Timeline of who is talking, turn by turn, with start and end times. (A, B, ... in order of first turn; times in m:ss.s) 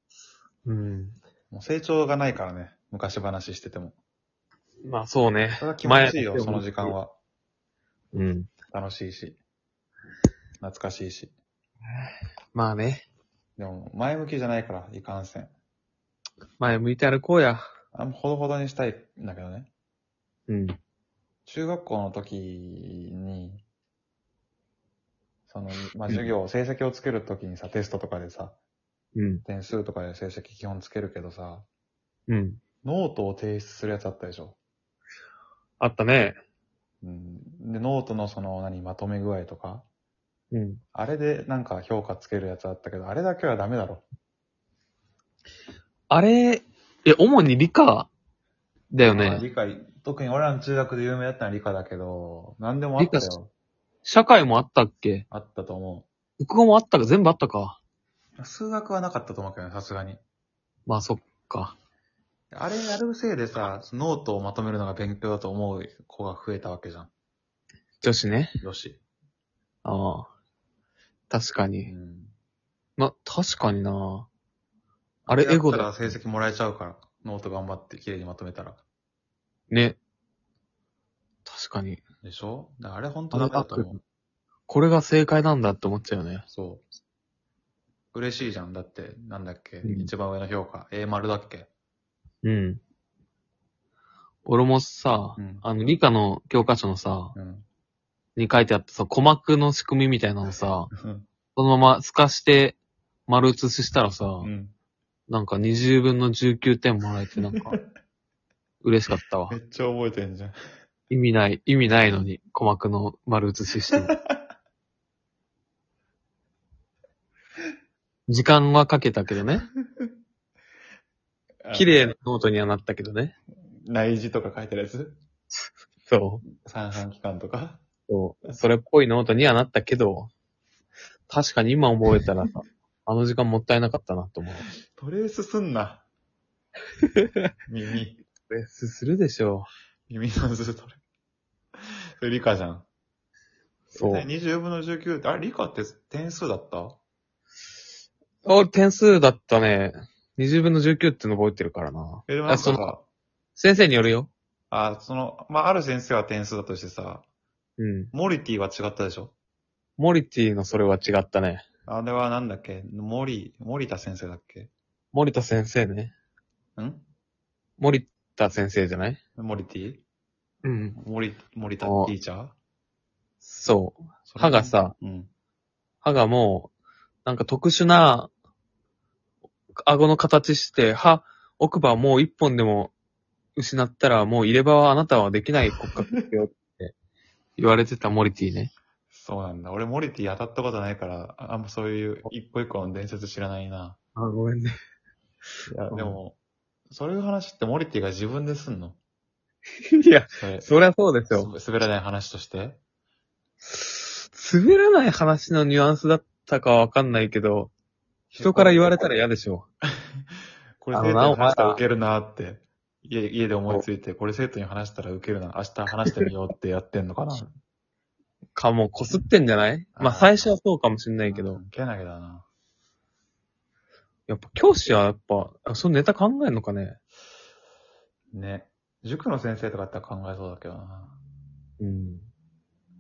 0:00.6-0:01.2 A
0:01.5-0:04.0 B
0:04.8-0:06.9 A
0:05.6-0:07.1 B
0:08.1-0:08.5 A
0:08.7-0:09.4 B
0:10.6-0:11.3 B
0:12.0-0:13.0 A
0:13.6-0:15.5 B
0:16.6-0:17.6 A
0:17.9-0:19.7 B
0:20.5-0:20.8 A
0:21.4-0:23.6 B
0:25.5-0:28.6 B
0:29.1-0:29.4 A
0:29.4-0:31.6 B
0:32.3-0:32.6 A
0:32.8-0:34.6 B
0:35.8-0:36.4 A
0:37.0-0:39.8 B
0:40.5-0:40.8 A
0:40.9-0:44.0 B
0:46.1-0:48.1 A
0:48.9-0:49.4 A
0:49.1-0:53.5 B
0:53.0-0:53.3 A
0:54.0-0:55.2 A
0:55.3-0:56.1 B
0:56.4-0:57.8 A
0:58.4-1:00.2 B
1:00.9-1:01.8 A
1:02.5-1:07.1 B
1:08.0-1:08.6 A
1:08.6-1:09.0 B
1:09.8-1:10.3 A
1:11.3-1:11.9 A
1:11.8-1:12.3 B
1:13.0-1:14.3 A
1:15.3-1:16.1 A
1:15.3-1:18.8 B
1:19.7-1:20.0 A
1:21.4-1:22.0 A
1:22.2-1:24.0 B
1:23.3-1:24.0 A
1:24.7-1:26.4 A
1:26.5-1:26.8 B
1:28.1-1:31.7 B
1:29.8-1:30.1 A
1:32.4-1:32.8 A
1:34.4-1:37.3 A
1:35.4-1:35.6 B
1:37.3-1:37.6 B
1:38.4-1:40.9 A
1:40.9-1:41.2 B
1:41.6-1:44.5 A
1:44.4-1:44.7 B
1:45.3-1:47.8 A
1:48.8-1:49.6 A
1:49.5-1:50.6 B
1:51.1-1:54.1 A
1:51.8-1:52.3 B
1:58.3-1:59.7 A
2:01.6-2:02.1 B
2:01.7-2:03.3 A
2:03.8-2:05.2 B
2:06.1-2:06.4 A
2:06.5-2:07.8 B
2:08.1-2:10.3 A
2:11.3-2:14.6 A
2:14.9-2:16.0 B
2:17.7-2:18.2 B
2:18.5-2:19.7 A
2:20.1-2:21.0 B
2:22.2-2:22.8 B
2:23.9-2:27.0 B
2:23.9-2:24.2 A
2:28.4-2:32.9 A
2:32.3-2:33.0 B
2:33.6-2:34.3 A
2:34.7-2:37.2 B
2:37.8-2:38.1 A
2:38.1-2:39.3 B
2:40.0-2:41.6 A
2:41.8-2:44.7 B
2:45.1-2:46.1 A
2:46.8-2:47.0 B
2:47.8-2:49.2 A
2:49.4-2:50.0 B
2:50.6-2:51.0 A
2:51.0-2:52.5 B
2:51.8-2:52.1 A
2:53.4-2:54.9 A
2:54.3-2:55.3 B
2:56.0-2:56.7 A
2:57.2-2:58.3 A
2:59.8-3:02.9 A
3:03.6-3:06.9 A
3:07.6-3:08.7 A
3:09.1-3:14.0 B
3:14.2-3:14.7 A
3:15.7-3:16.4 B
3:15.9-3:16.2 A
3:16.9-3:19.0 B
3:19.9-3:21.5 A
3:20.3-3:20.7 B
3:21.3-3:22.8 B
3:23.7-3:27.7 A
3:28.3-3:29.0 B
3:28.4-3:29.6 A
3:30.8-3:37.5 B
3:30.9-3:31.8 A
3:38.5-3:41.6 A
3:40.0-3:40.5 B
3:41.2-3:42.5 B
3:44.3-3:47.0 A
3:48.3-3:51.2 B
3:51.8-3:52.3 A